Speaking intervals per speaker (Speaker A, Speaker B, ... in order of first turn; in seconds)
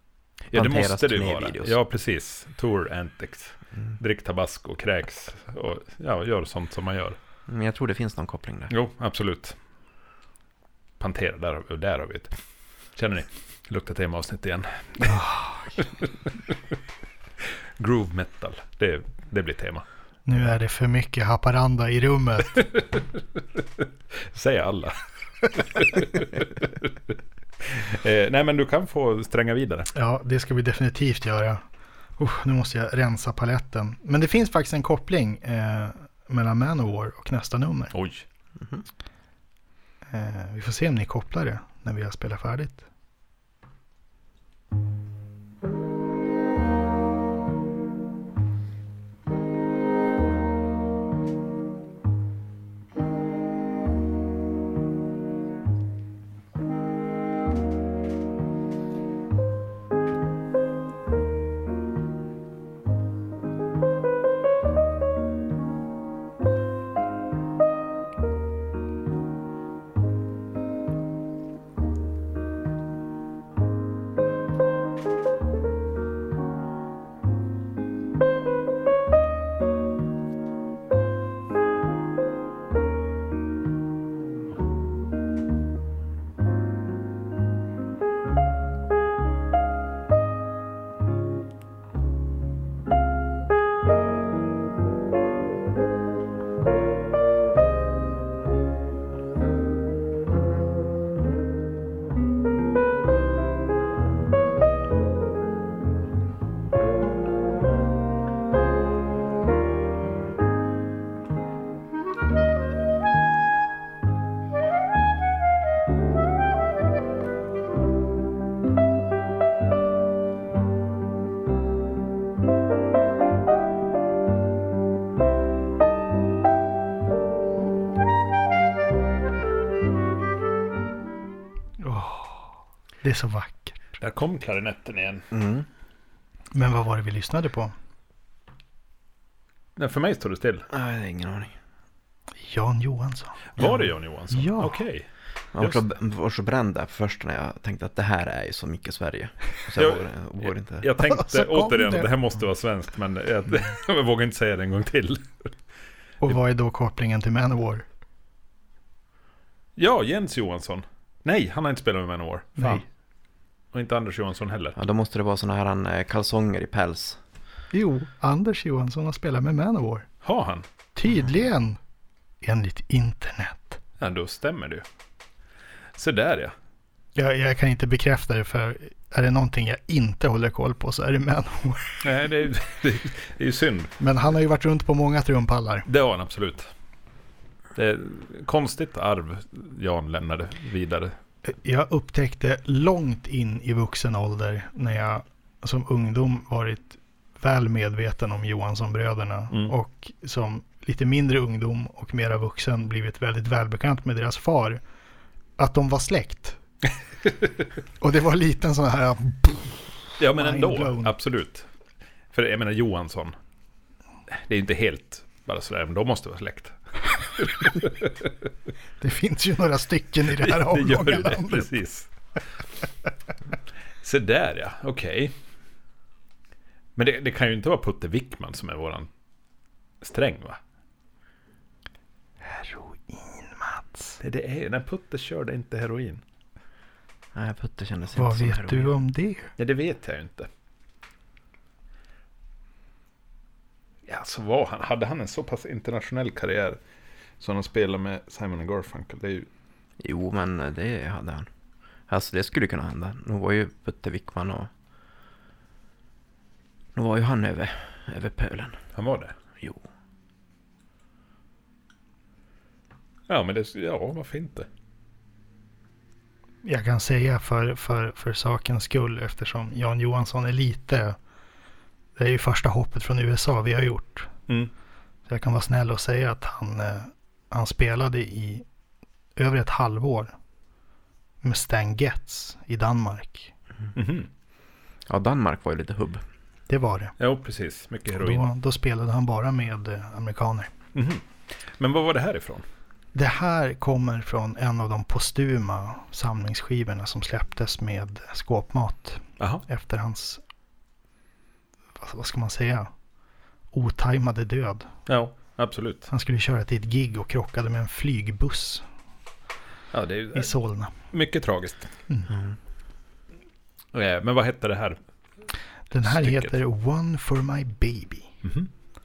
Speaker A: 0.5-7.2, 8.7-9.6, 11.0-12.3, 12.9-15.2, 17.8-19.8, 22.7-23.0, 24.3-26.9, 27.6-29.9, 37.9-38.2, 134.0-135.3, 139.8-140.7, 143.6-145.8, 149.8-155.5, 159.8-162.8, 163.7-164.8, 170.2-170.6, 174.0-174.8, 175.9-176.5, 182.0-183.9, 185.9-186.7, 187.8-191.2, 210.2-211.7, 212.3-213.3, 214.3-218.1, 220.3-222.1, 224.0-225.3, 226.9-229.1, 230.0-230.6, 234.2-236.2, 239.6-240.5, 244.1-246.8, 247.4-249.5, 258.9-259.3, 263.3-264.7, 283.9-284.3, 287.2-288.5, 290.9-292.6, 305.1-306.1, 309.9-311.9, 313.9-315.0, 315.9-316.6, 318.4-318.7
Speaker B: 0.5-1.8, 7.5-8.7, 38.6-38.8, 135.3-135.7, 140.7-141.5, 145.5-150.9, 164.8-167.2, 237.3-238.9, 250.0-251.5, 252.1-254.7, 256.9-258.8, 259.6-259.8, 285.1-286.2, 312.3-312.6
Speaker C: 15.0-15.8, 20.2-22.6, 29.9-31.6, 32.2-37.9, 40.1-42.9, 131.8-134.0, 136.5-137.7, 142.4-144.8, 151.1-152.1, 156.2-157.8, 162.6-162.8, 167.7-170.1, 170.9-171.8, 172.4-173.8, 177.2-182.0, 184.0-185.9, 191.4-204.8, 205.6-206.6, 208.0-211.1, 219.0-221.7, 232.4-234.2, 238.2-239.5, 266.6-271.2, 272.1-274.3, 275.3-278.6, 279.4-280.3, 281.4-283.5, 286.7-287.1, 288.2-290.7, 293.1-300.4, 302.0-302.9, 303.7-304.9, 306.1-308.9, 310.3-310.9, 315.9-318.3